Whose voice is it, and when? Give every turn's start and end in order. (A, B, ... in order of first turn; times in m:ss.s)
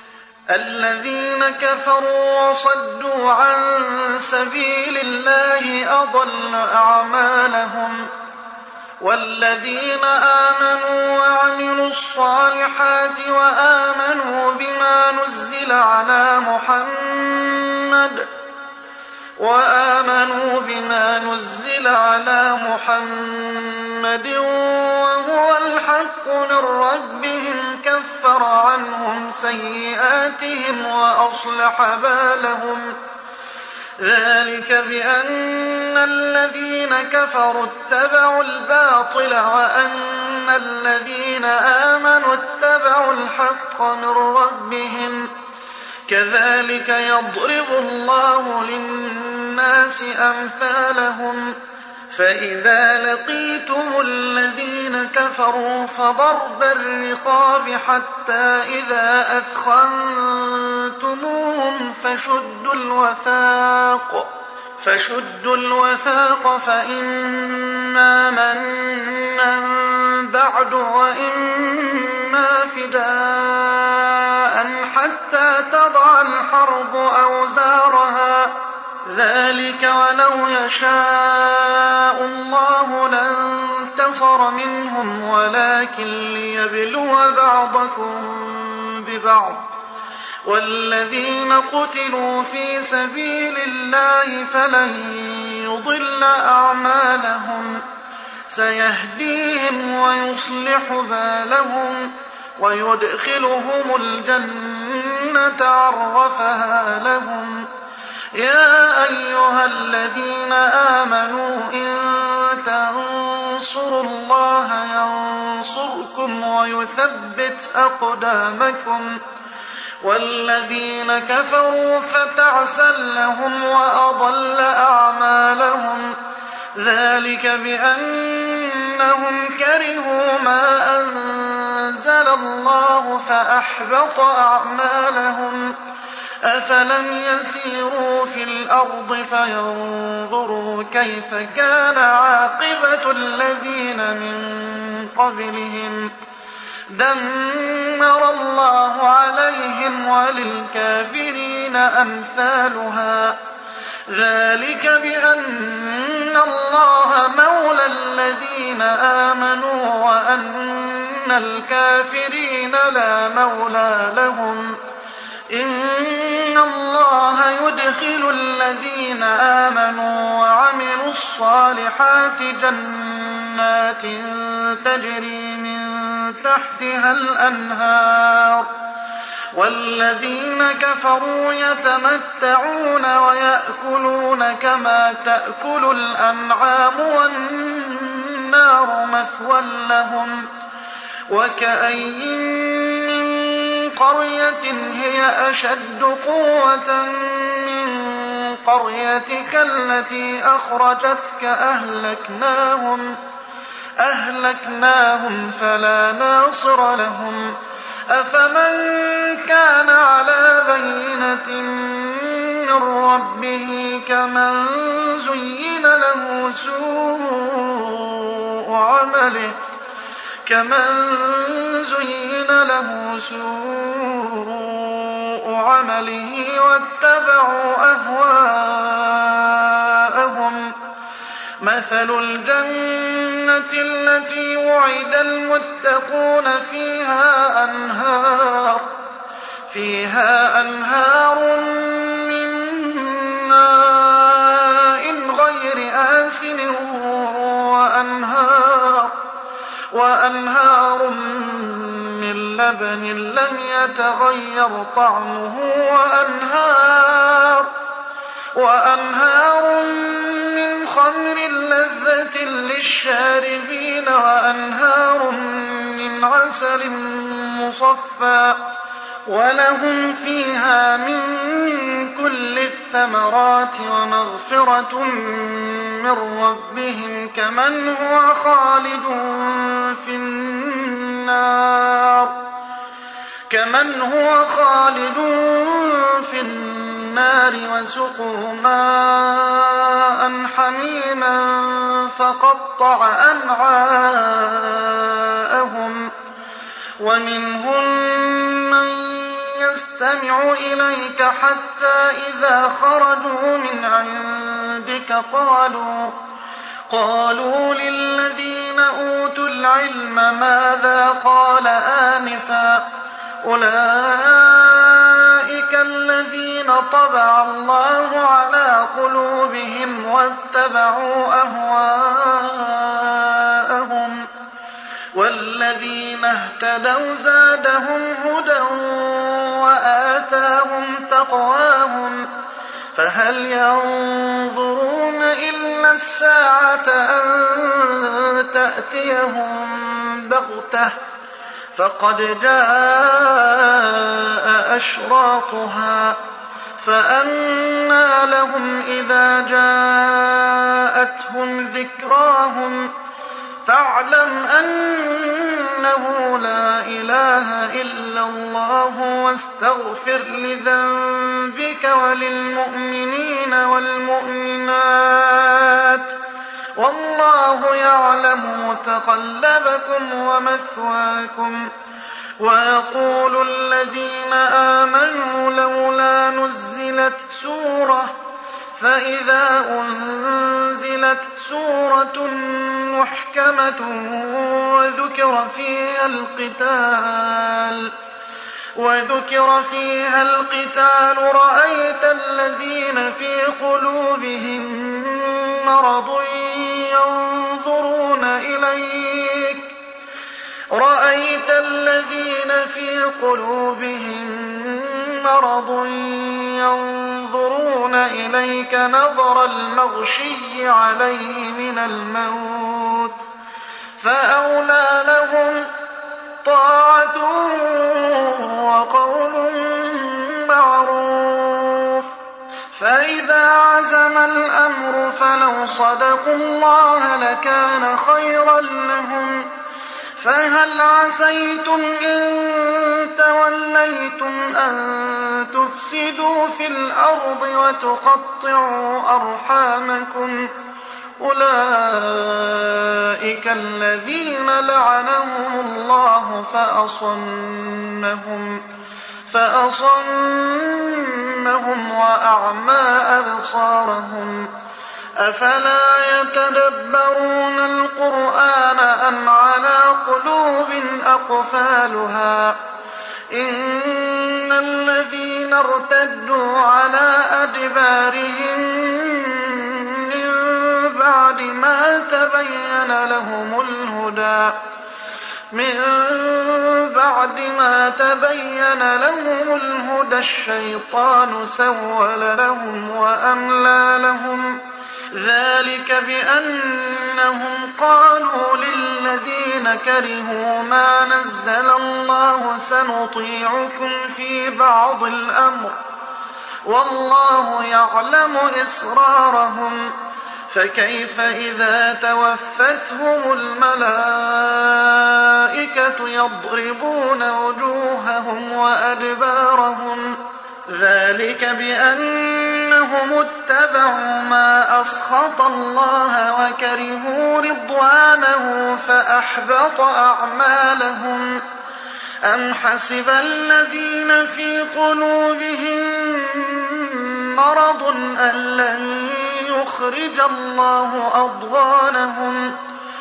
0:00.5-0:08.1 A
0:09.0-0:18.3 A
0:19.4-0:32.9 A
0:34.0-0:45.3 A
0:46.1-0:51.5 A
0:52.1-1:29.6 A
1:30.4-1:37.8 A
1:38.5-1:47.7 A
1:48.3-1:59.2 A
2:00.0-2:06.2 A
2:06.8-2:15.8 A
2:16.4-2:26.1 A
2:26.9-2:33.4 A
2:34.1-2:44.8 A
2:45.5-2:58.7 A
2:59.5-3:10.5 A
3:11.3-3:23.2 A
3:24.0-3:27.5 A
3:28.1-3:39.6 A
3:40.4-3:50.7 A
3:51.6-3:58.9 A
3:59.7-4:09.2 A
4:09.9-4:17.7 A
4:18.5-4:28.6 A
4:29.3-4:42.4 A
4:43.5-4:56.1 A
4:57.0-5:06.2 A
5:06.9-5:12.8 A
5:13.4-5:24.3 A
5:25.1-5:32.3 A
5:32.9-5:41.0 A
5:41.7-5:46.2 A
5:46.8-5:52.9 A
5:53.6-6:06.2 A
6:06.8-6:11.7 A
6:12.4-6:18.1 A
6:18.7-6:27.9 A
6:28.8-6:39.7 A
6:40.7-6:53.3 A
6:54.0-6:55.7 A
6:56.4-7:02.1 A
7:02.7-7:09.5 A
7:10.2-7:20.5 A
7:21.2-7:28.6 A
7:29.3-7:34.5 A
7:35.2-7:42.6 A
7:43.3-7:54.6 A
7:55.5-8:04.6 A
8:05.1-8:15.8 A
8:16.6-8:19.9 A
8:20.5-8:41.4 A
8:42.2-8:52.6 A